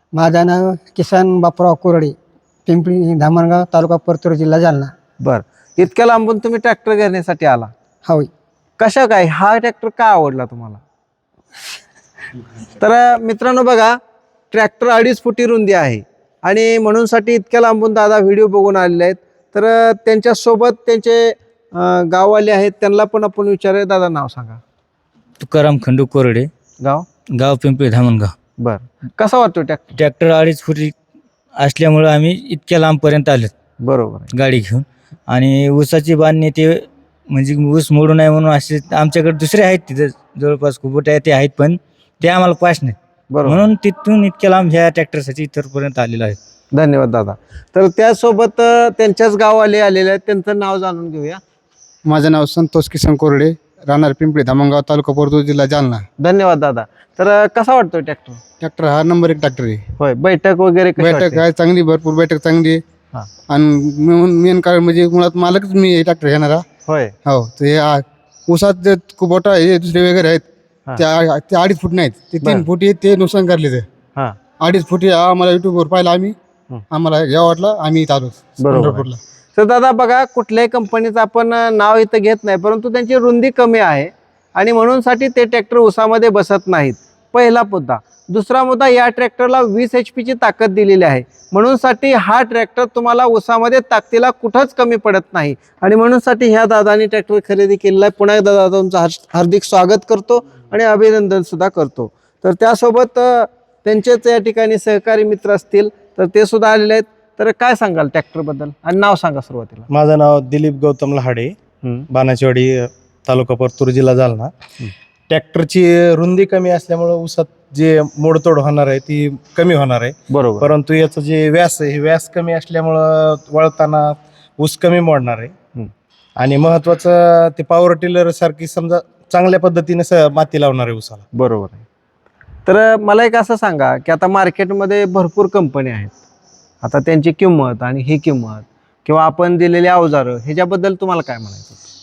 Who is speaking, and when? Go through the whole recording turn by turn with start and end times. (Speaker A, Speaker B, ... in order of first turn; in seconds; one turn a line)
Speaker A: 0.1-2.1
Speaker A: 2.7-4.9
Speaker B: 5.2-7.7
Speaker B: 8.8-10.8
Speaker B: 12.7-14.0
Speaker B: 14.5-24.6
Speaker C: 25.4-26.5
Speaker B: 26.8-27.1
Speaker C: 27.3-28.3
Speaker B: 28.6-30.0
Speaker C: 30.0-30.9
Speaker C: 31.6-33.5
Speaker B: 33.8-34.3
Speaker C: 34.3-46.4
Speaker B: 43.3-43.6
Speaker B: 46.7-51.4
Speaker D: 52.0-56.0
Speaker B: 56.2-58.4
Speaker D: 58.6-59.8
Speaker B: 60.0-61.4
Speaker D: 61.0-62.8
Speaker D: 63.5-66.6
Speaker B: 66.8-67.1
Speaker D: 67.2-70.5
Speaker D: 71.0-73.8
Speaker D: 74.6-76.3
Speaker D: 76.9-79.2
Speaker B: 78.6-109.9
Speaker E: 109.9-111.5
Speaker E: 112.1-114.5
Speaker E: 115.3-125.5
Speaker B: 120.3-120.7
Speaker E: 126.4-131.2
Speaker B: 131.3-131.8
Speaker B: 132.7-136.2
Speaker B: 136.8-141.8